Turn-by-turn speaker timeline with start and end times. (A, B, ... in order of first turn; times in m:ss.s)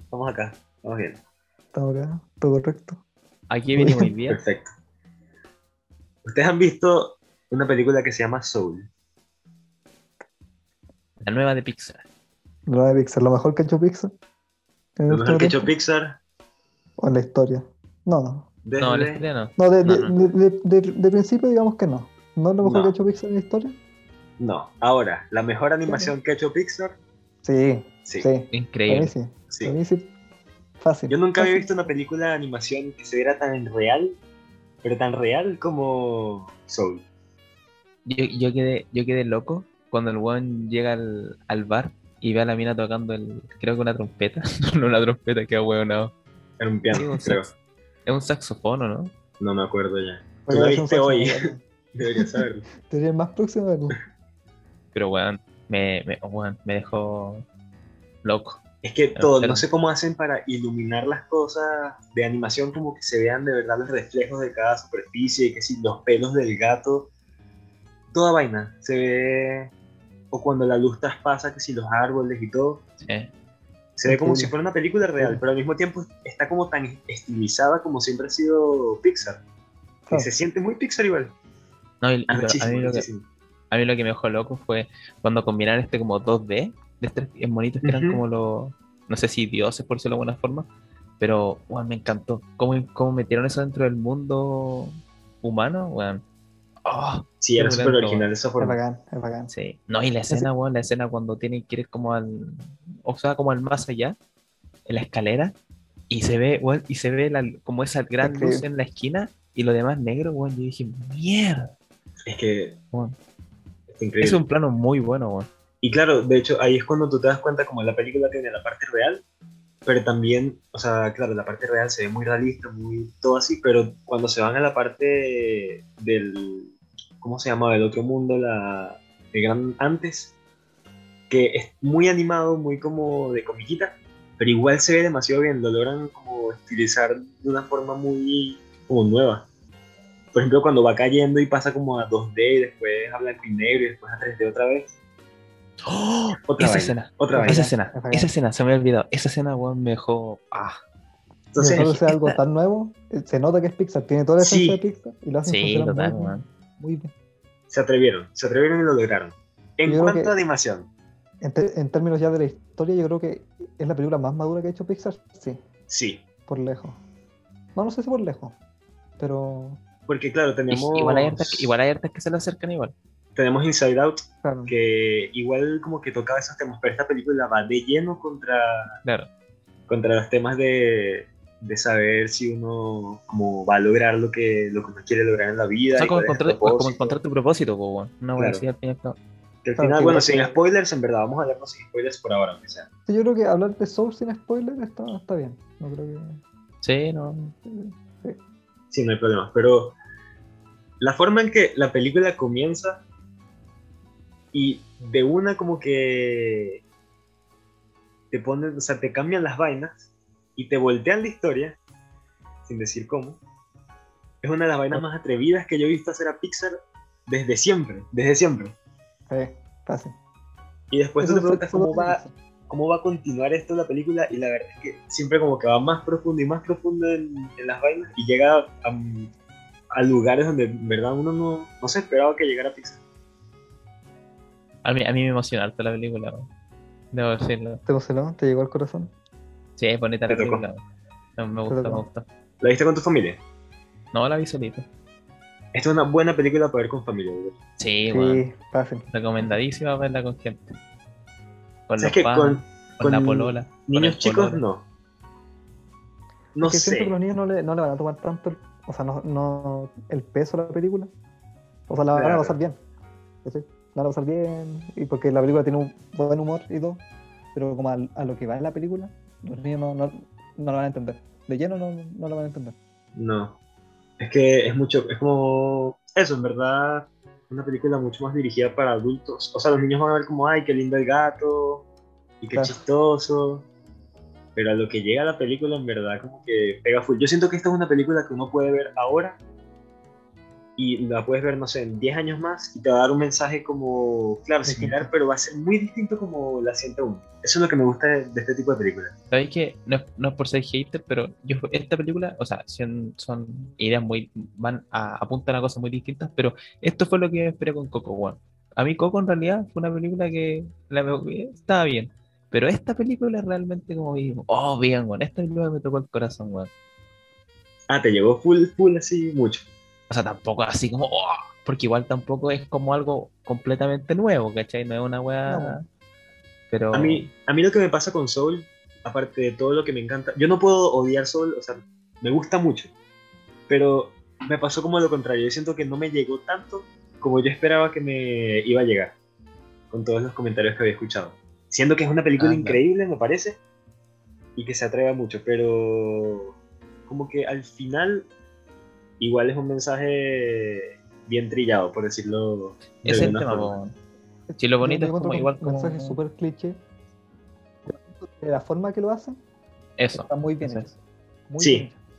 0:00.1-0:01.2 A
0:01.7-0:03.0 B
0:03.5-0:04.4 C
0:03.8-0:04.1 B
0:04.3-0:04.7 A
0:06.2-0:08.9 A
0:11.2-0:12.0 C
0:12.7-0:14.1 B
0:15.0-0:15.7 B
0:15.1-0:16.2 A
0:17.0-0:18.5 B
0:18.6-0:19.2 A
0:18.8-0:20.3 C
0:19.6-0:23.8 B
0:22.6-0:22.9 A
0:24.4-0:27.0 A
0:25.9-0:26.1 B
0:27.4-0:30.1 B
0:28.5-0:29.1 C
0:29.5-0:29.7 A
0:30.8-0:31.9 B
0:31.1-0:34.2 A
0:34.8-0:37.0 A
0:38.0-0:46.1 C
0:46.6-0:47.5 A
0:46.9-0:47.5 C
0:48.0-0:49.1 C
0:49.4-0:52.6 A
0:50.5-0:51.6 B
0:52.2-0:54.0 B
0:54.9-0:57.4 C
0:58.2-0:58.6 C
0:58.8-1:07.1 A
0:59.2-0:59.6 C
1:08.1-1:09.7 A
1:10.3-1:12.8 A
1:13.0-1:13.3 C
1:14.0-1:19.4 A
1:14.1-1:14.5 B
1:15.2-1:15.4 B
1:20.1-1:21.3 A
1:22.0-1:23.0 C
1:22.3-1:23.3 A
1:23.7-1:30.7 C
1:27.8-1:28.2 A
1:31.2-1:36.2 C
1:36.8-1:38.3 C
1:37.4-1:38.8 A
1:38.6-1:39.5 B
1:39.5-1:44.2 C
1:44.9-1:45.5 C
1:46.1-1:51.7 C
1:48.2-1:48.6 B
1:52.2-1:52.8 A
1:53.9-1:54.4 A
1:54.2-1:55.5 C
1:55.8-1:59.2 A
1:59.8-2:10.3 A
2:11.3-2:19.5 A
2:20.3-2:24.9 A
2:25.9-2:30.8 C
2:26.4-2:27.7 A
2:27.3-2:28.3 B
2:31.5-2:31.9 A
2:31.6-2:37.1 B
2:31.7-2:32.4 C
2:34.4-2:34.8 A
2:35.4-2:36.5 C
2:37.7-2:40.9 A
2:39.9-2:40.4 B
2:41.4-2:45.6 B
2:45.9-2:46.2 A
2:46.5-2:47.0 B
2:47.8-2:48.6 B
2:49.2-2:49.8 B
2:50.1-2:51.7 A
2:50.7-2:52.9 C
2:53.3-2:58.9 A
2:54.4-2:54.7 B
2:59.0-2:59.3 C
2:59.9-3:07.2 A
3:05.9-3:09.2 C
3:08.4-3:08.6 A
3:09.6-3:12.9 A
3:09.8-3:10.6 B
3:13.1-3:16.4 B
3:16.8-3:17.5 C
3:17.7-3:18.4 B
3:18.9-3:20.0 A
3:21.0-3:23.0 A
3:24.5-3:26.8 A
3:28.3-3:31.8 A
3:32.6-3:33.4 A
3:34.4-3:36.7 A
3:37.3-3:38.7 A
3:39.3-3:40.2 B
3:40.9-3:49.3 A
3:41.2-3:42.3 B
3:49.9-3:53.0 A
3:54.8-3:56.5 C
3:57.1-3:57.8 C
3:57.8-3:59.1 B
3:59.8-4:00.8 C
4:00.3-4:00.6 A
4:01.4-4:02.2 C
4:01.7-4:02.0 B
4:02.6-4:03.4 A
4:04.1-4:04.9 C
4:05.7-4:07.6 A
4:07.8-4:08.4 C
4:08.1-4:09.1 B
4:09.1-4:10.8 C
4:11.9-4:14.6 C
4:12.0-4:14.9 A
4:16.5-4:17.2 A
4:16.6-4:21.1 B
4:21.9-4:22.8 B
4:22.1-4:22.6 A
4:23.4-4:27.0 B
4:27.5-4:32.8 B
4:33.1-4:33.6 A
4:34.2-4:41.9 A
4:42.4-4:43.7 A
4:42.5-4:42.8 B
4:44.5-4:49.4 A
4:50.8-4:59.1 A
4:54.6-4:55.1 B
4:59.3-5:16.7 C
5:17.9-5:19.7 A
5:20.1-5:25.8 C
5:25.4-5:25.8 B
5:26.7-5:27.2 C
5:26.9-5:32.9 A
5:33.7-5:39.2 A
5:39.9-5:43.6 A
5:42.4-5:42.8 C
5:44.6-5:46.6 A
5:47.1-5:48.3 A
5:49.2-5:53.8 A
5:53.0-5:54.0 C
5:54.5-5:56.8 B
5:54.6-5:56.2 C
5:57.9-5:59.4 B
6:00.0-6:00.9 C
6:00.1-6:01.0 B
6:01.5-6:02.0 B
6:01.6-6:01.9 A